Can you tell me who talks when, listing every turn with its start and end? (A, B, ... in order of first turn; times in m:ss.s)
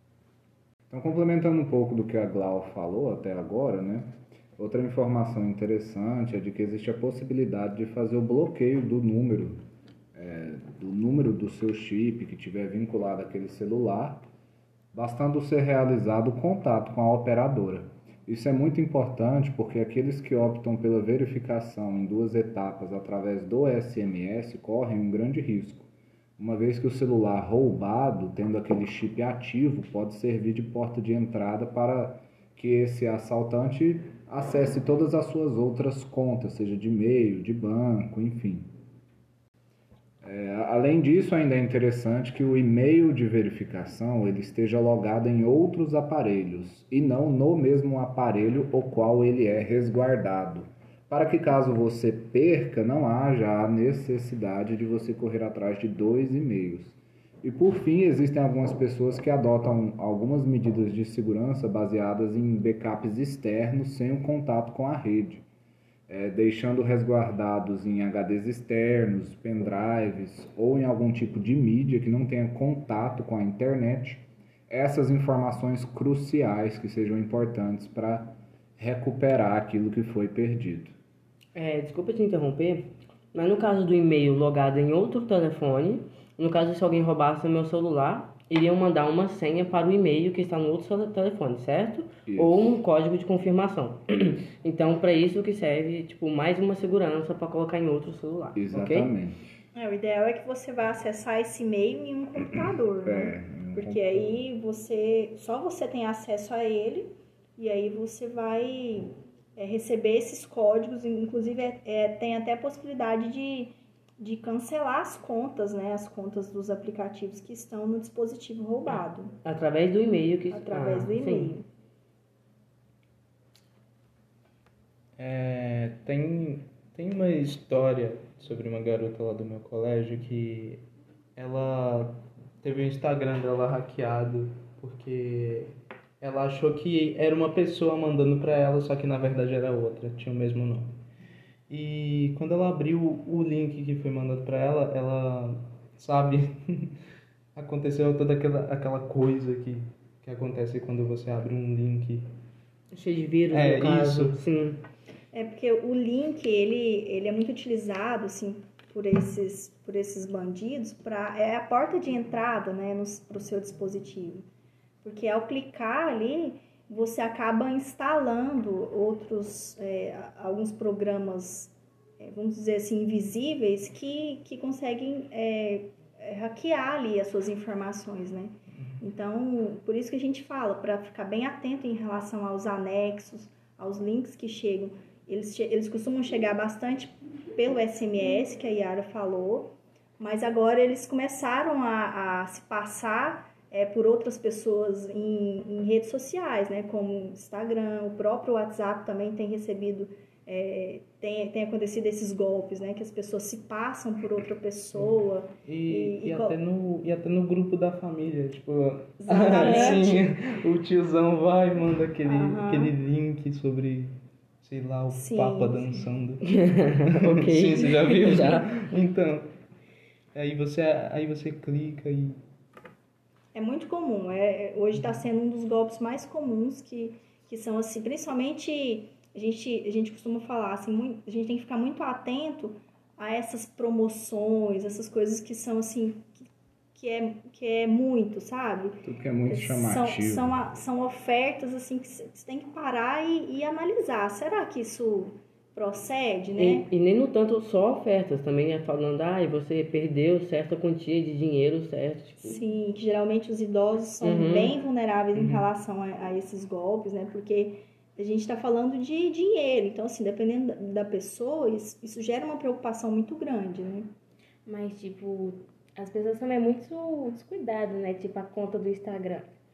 0:00.9-0:09.6 A
0:10.1-0:14.3 A
0:14.9-0:38.7 A
0:40.2-1:05.5 A
1:06.1-1:21.0 A
1:21.6-1:39.1 B
1:32.3-1:32.7 A
1:38.6-1:39.4 A
1:39.7-1:59.3 C
1:43.0-1:44.4 A
1:59.4-2:01.5 B
2:00.5-2:01.7 C
2:05.2-2:10.8 D
2:11.4-2:21.0 D
2:21.7-2:27.0 D
2:27.6-2:32.2 D
2:32.9-2:34.8 B
2:33.5-2:34.4 D
2:35.3-2:44.4 C
2:45.0-3:26.6 C
3:25.0-3:39.5 D
3:29.2-3:30.3 C
3:32.2-3:33.0 C
3:35.1-3:36.1 C
3:36.5-3:38.7 B
3:40.3-3:42.4 D
3:43.5-4:06.9 C
3:59.0-4:00.6 A
4:06.6-4:12.6 B
4:12.4-4:24.1 C
4:14.2-4:14.8 B
4:15.4-4:15.6 D
4:24.7-4:29.5 E